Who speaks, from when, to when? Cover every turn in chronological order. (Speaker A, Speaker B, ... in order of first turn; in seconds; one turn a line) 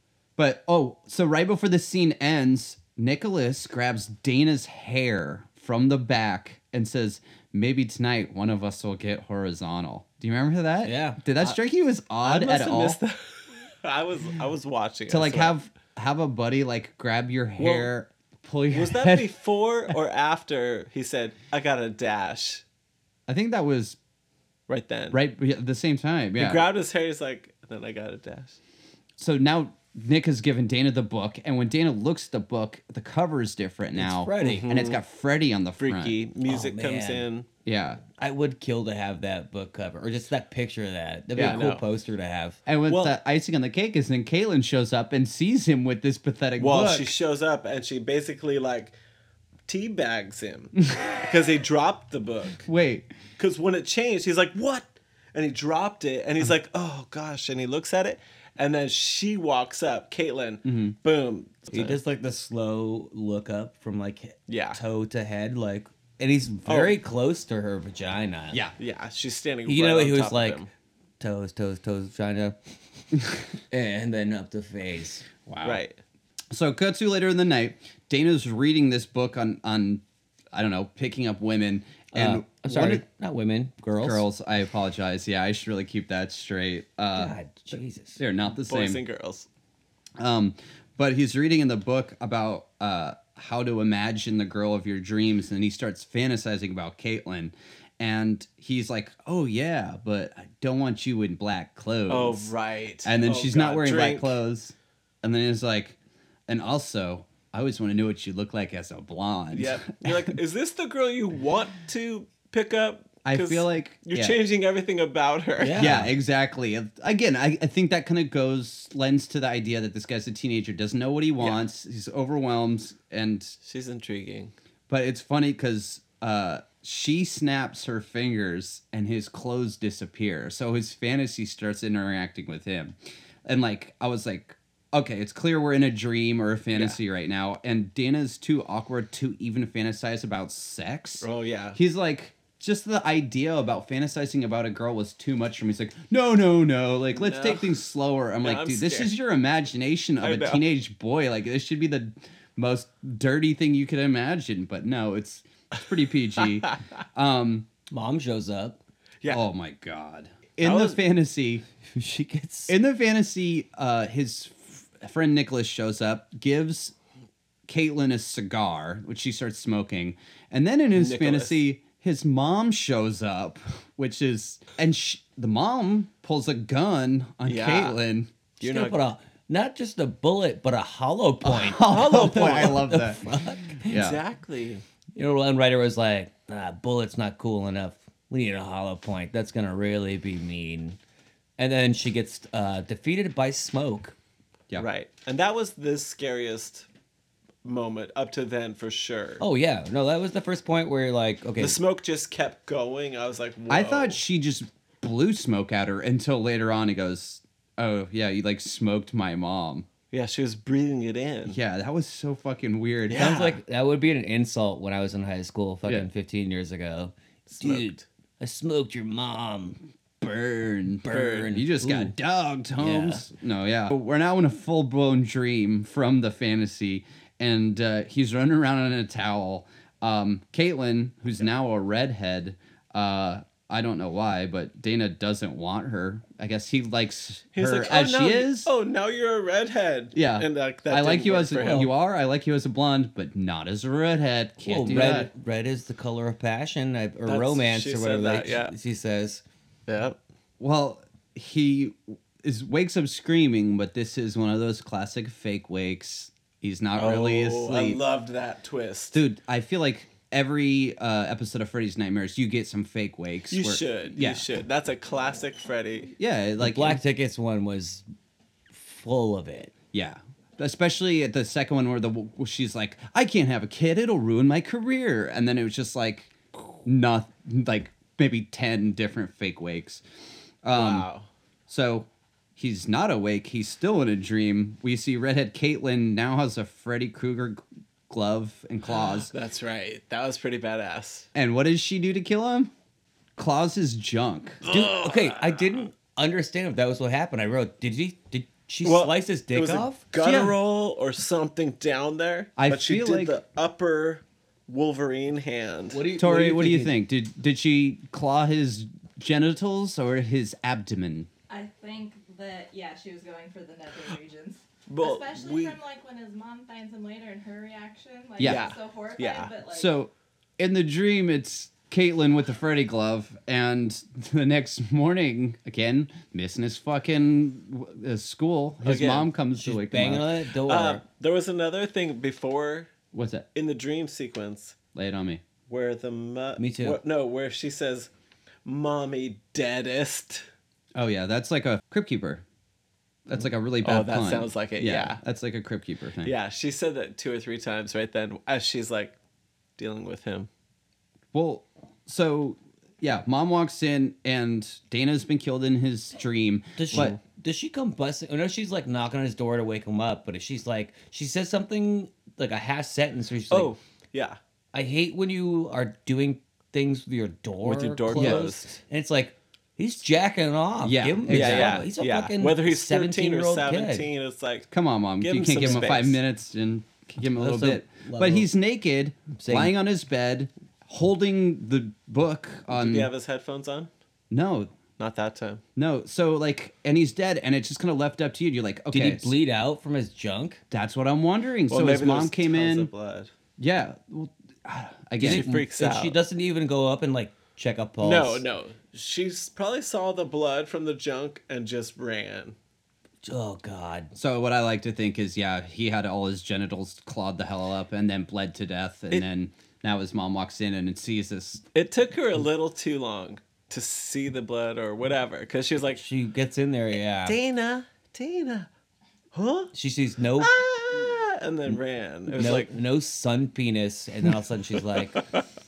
Speaker A: 0.4-13.0
Speaker B: 10.8-11.2
Speaker C: 12.2-15.6
Speaker A: 15.1-19.3
Speaker C: 17.6-17.9
Speaker C: 18.7-22.6
Speaker A: 23.3-24.0
Speaker C: 24.7-25.2
Speaker A: 25.1-26.6
Speaker C: 26.4-28.6
Speaker A: 29.2-36.1
Speaker B: 34.0-34.7
Speaker C: 34.4-35.0
Speaker C: 35.8-37.5
Speaker B: 36.5-37.3
Speaker A: 37.6-38.0
Speaker B: 38.2-42.6
Speaker A: 41.4-41.6
Speaker C: 41.4-41.8
Speaker A: 42.7-47.1
Speaker C: 42.9-43.1
Speaker C: 46.6-49.0
Speaker C: 49.7-52.7
Speaker A: 52.7-53.1
Speaker C: 53.4-62.0
Speaker A: 60.6-61.0
Speaker B: 61.7-68.6
Speaker C: 64.5-64.8
Speaker C: 66.7-67.0
Speaker C: 68.8-70.7
Speaker B: 69.7-70.6
Speaker B: 71.2-72.6
Speaker B: 73.7-75.2
Speaker A: 75.5-75.8
Speaker C: 75.6-76.0
Speaker A: 76.5-83.0
Speaker B: 82.1-84.2
Speaker A: 84.0-87.3
Speaker B: 87.2-88.2
Speaker A: 88.2-89.0
Speaker C: 88.7-89.5
Speaker A: 90.2-102.5
Speaker C: 102.1-104.4
Speaker A: 103.0-106.0
Speaker A: 106.5-110.3
Speaker C: 109.5-116.0
Speaker A: 113.2-114.4
Speaker B: 115.6-116.1
Speaker A: 115.8-123.6
Speaker C: 123.6-124.5
Speaker A: 124.9-157.7
Speaker C: 136.7-137.0
Speaker C: 141.2-141.8
Speaker C: 147.2-147.8
Speaker C: 148.4-149.1
Speaker C: 150.2-150.6
Speaker B: 157.9-158.8
Speaker A: 159.3-161.7
Speaker C: 160.6-161.0
Speaker B: 161.9-162.8
Speaker A: 162.7-166.9
Speaker A: 167.7-178.3
Speaker C: 170.9-171.6
Speaker C: 177.5-178.0
Speaker C: 178.6-179.0
Speaker B: 178.6-184.0
Speaker A: 181.4-183.2
Speaker C: 181.8-182.8
Speaker A: 183.8-184.2
Speaker C: 183.9-184.8
Speaker B: 185.2-191.0
Speaker B: 191.6-194.2
Speaker C: 194.8-196.9
Speaker C: 197.6-199.4
Speaker B: 199.4-201.8
Speaker C: 201.6-204.2
Speaker A: 203.7-209.9
Speaker C: 210.1-211.6
Speaker A: 211.5-213.5
Speaker C: 213.1-213.6
Speaker B: 213.1-219.8
Speaker C: 217.5-218.0
Speaker A: 220.2-238.7
Speaker B: 221.0-222.1
Speaker C: 221.1-221.5
Speaker B: 222.8-223.3
Speaker C: 237.5-241.9
Speaker A: 240.1-245.3
Speaker B: 241.6-241.9
Speaker B: 244.6-249.4
Speaker C: 247.3-248.7
Speaker C: 249.9-250.2
Speaker A: 250.6-258.0
Speaker C: 257.0-259.2
Speaker A: 259.1-264.5
Speaker C: 263.5-266.1
Speaker A: 266.2-267.0
Speaker B: 266.6-268.1
Speaker B: 268.7-269.7
Speaker A: 269.9-280.0
Speaker A: 280.6-281.1
Speaker C: 280.7-281.3
Speaker A: 281.7-289.3
Speaker C: 288.9-291.3
Speaker A: 291.4-292.7
Speaker A: 293.4-294.6
Speaker C: 294.6-295.6
Speaker B: 294.7-300.0
Speaker C: 298.8-306.1
Speaker A: 300.2-300.6
Speaker A: 302.6-303.4
Speaker B: 305.9-306.9
Speaker A: 306.2-311.3
Speaker D: 311.5-319.9
Speaker C: 314.9-315.8
Speaker A: 318.4-318.7
Speaker C: 318.4-319.5
Speaker A: 319.7-330.3
Speaker C: 328.8-329.3
Speaker B: 329.6-331.0
Speaker C: 330.7-332.9
Speaker A: 333.1-333.5
Speaker C: 333.6-334.8
Speaker A: 334.9-335.4
Speaker C: 335.7-338.1
Speaker B: 336.6-337.0
Speaker C: 338.6-340.4
Speaker A: 340.9-342.4
Speaker A: 343.3-346.3
Speaker C: 343.8-345.2
Speaker C: 346.2-349.1
Speaker C: 349.8-350.5
Speaker A: 351.3-357.2
Speaker B: 356.8-363.7
Speaker C: 363.5-364.4
Speaker B: 364.7-374.1
Speaker C: 367.6-368.8
Speaker A: 368.1-368.5
Speaker A: 370.8-371.9
Speaker C: 371.3-374.7
Speaker A: 374.7-383.1
Speaker C: 375.2-376.2
Speaker B: 377.3-378.5
Speaker B: 379.4-379.7
Speaker C: 382.7-383.9
Speaker A: 384.3-384.8
Speaker C: 385.0-385.6
Speaker A: 385.8-389.3
Speaker B: 388.9-390.6
Speaker A: 390.7-392.9
Speaker C: 391.7-393.3
Speaker A: 393.6-395.5
Speaker C: 395.2-396.2
Speaker B: 395.2-398.4
Speaker C: 398.0-402.6
Speaker B: 403.2-404.1
Speaker A: 404.1-411.6
Speaker C: 411.7-416.0
Speaker B: 416.0-417.4
Speaker C: 417.2-418.7
Speaker C: 419.3-419.7
Speaker B: 419.7-420.5
Speaker C: 420.4-422.8
Speaker B: 422.3-425.2
Speaker C: 424.9-425.4